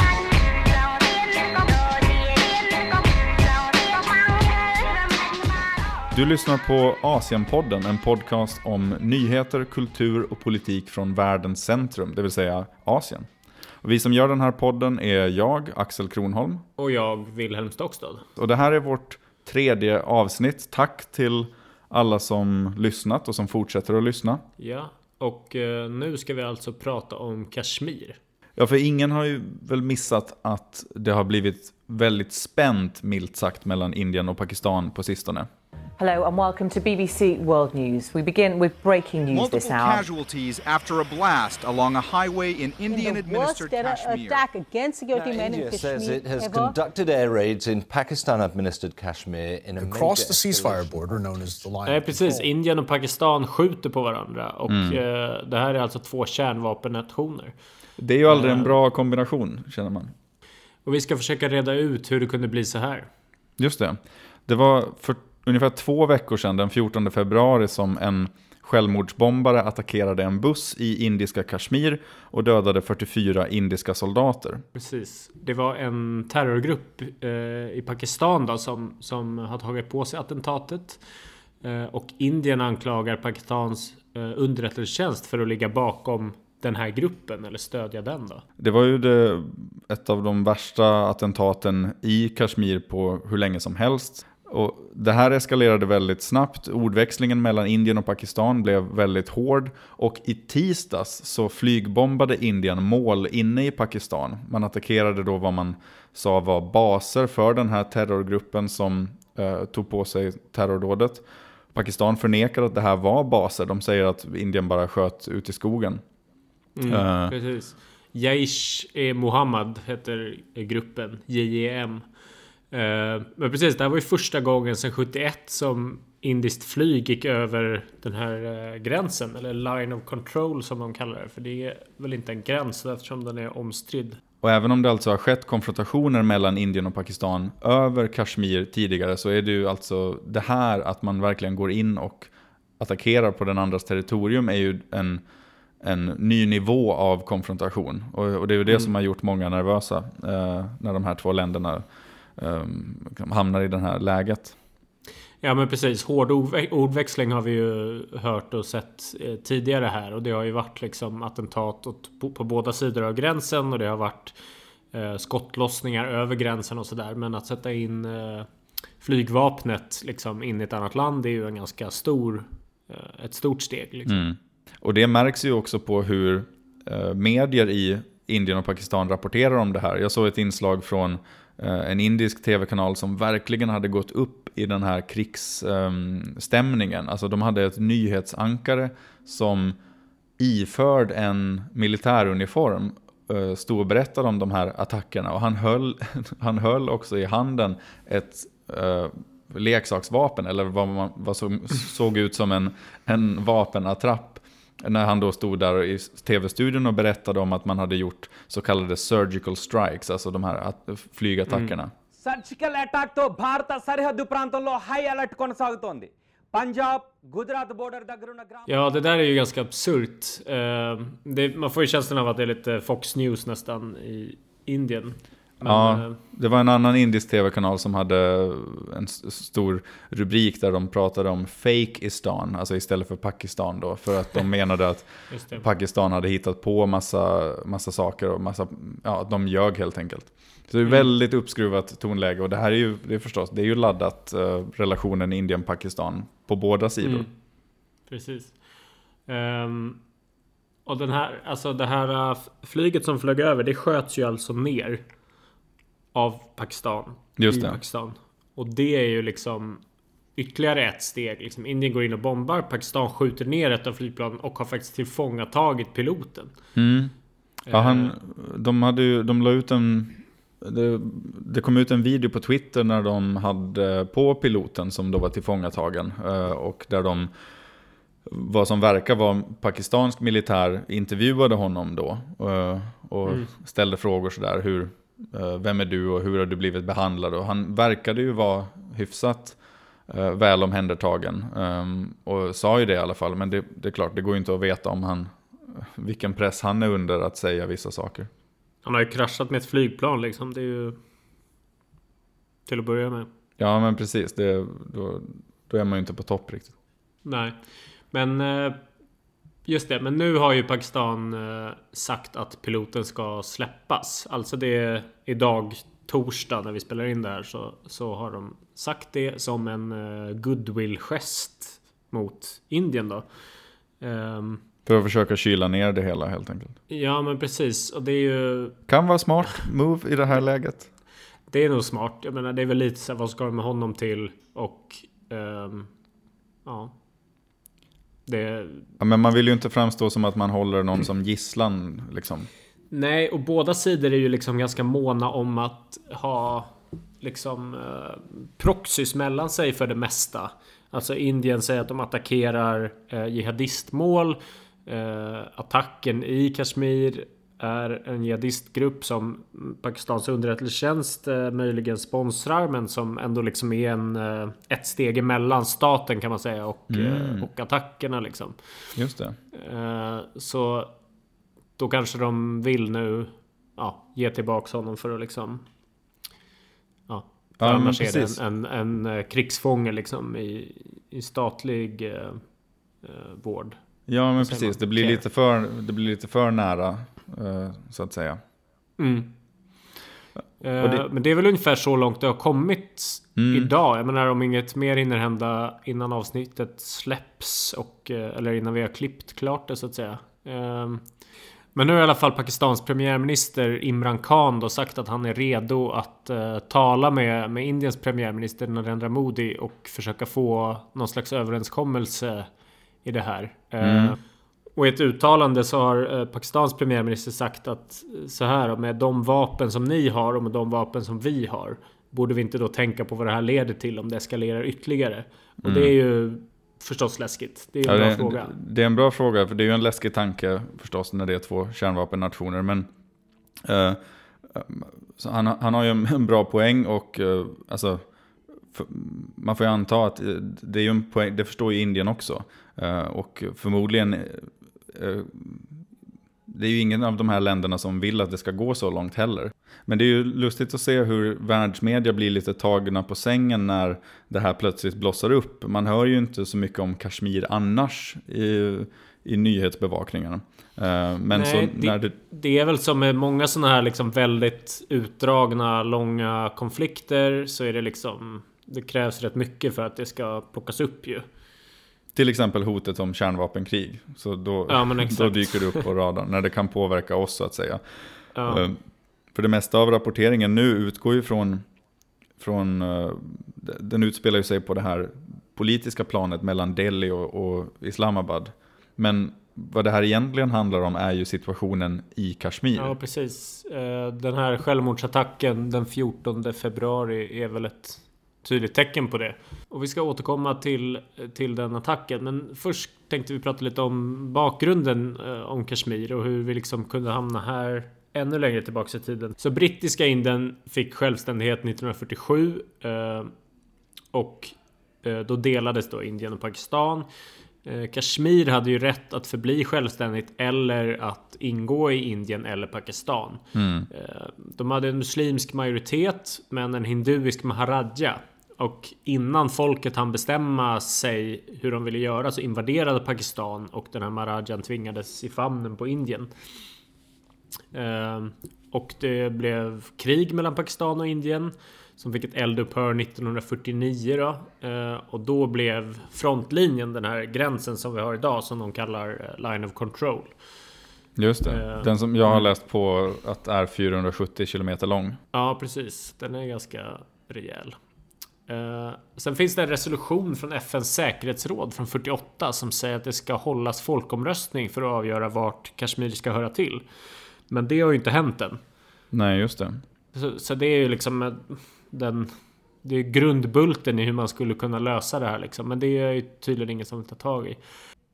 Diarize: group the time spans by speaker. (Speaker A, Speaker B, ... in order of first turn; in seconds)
Speaker A: 6.1-13.3, 13.8-16.6, 18.4-24.4, 28.6-35.5, 54.7-55.0, 58.0-60.1, 63.6-74.6, 88.6-116.0, 116.9-117.3, 134.4-145.2, 145.8-151.8, 152.4-154.6, 174.1-189.8, 190.4-211.9, 225.7-247.3, 257.4-257.8, 266.8-267.1, 267.7-277.3, 278.3-289.6, 290.1-298.3, 303.6-306.7, 324.9-326.8, 328.9-330.9, 339.0-342.5, 366.9-367.5, 369.0-369.4, 377.6-378.4, 384.1-388.4, 390.8-391.1, 393.4-393.7, 413.8-414.2, 425.6-425.9, 427.9-432.9, 433.6-438.1, 438.7-445.7, 446.5-462.1, 472.1-477.8, 478.5-478.8, 479.3-481.6, 482.4-492.9, 523.5-523.9, 551.2-555.2, 569.1-569.8
Speaker B: 16.8-18.2, 24.6-28.2, 51.9-57.5, 58.3-58.7, 60.9-63.1, 74.8-81.0, 81.6-88.4, 116.8-122.1, 122.7-134.2, 155.4-164.4, 164.9-168.5, 169.0-174.2, 211.5-211.7, 218.7-226.2, 235.3-235.7, 247.0-247.3, 248.1-248.6, 249.3-250.0, 250.8-255.0, 256.1-259.8, 260.4-266.5, 267.7-268.1, 298.8-301.0, 302.7-303.3, 307.2-307.6, 308.1-308.8, 309.6-323.2, 324.0-324.6, 326.9-328.8, 331.5-335.9, 336.6-336.9, 338.3-338.9, 342.9-368.6, 369.5-370.9, 371.8-375.7, 377.1-382.4, 383.0-383.8, 384.4-385.2, 389.0-389.3, 390.6-401.0, 401.8-412.5, 413.0-414.2, 414.8-428.5, 461.3-471.2, 474.7-475.9, 478.4-478.6, 492.8-513.3, 514.1-517.1, 517.6-536.3, 537.7-550.4, 551.5-552.5, 555.3-557.8, 558.5-566.9, 567.5-568.6, 570.1-577.6
Speaker C: 36.0-40.1
Speaker D: 39.3-44.5
Speaker E: 42.9-46.8
Speaker F: 45.1-51.0
Speaker G: 49.8-52.5
Speaker H: 212.2-218.7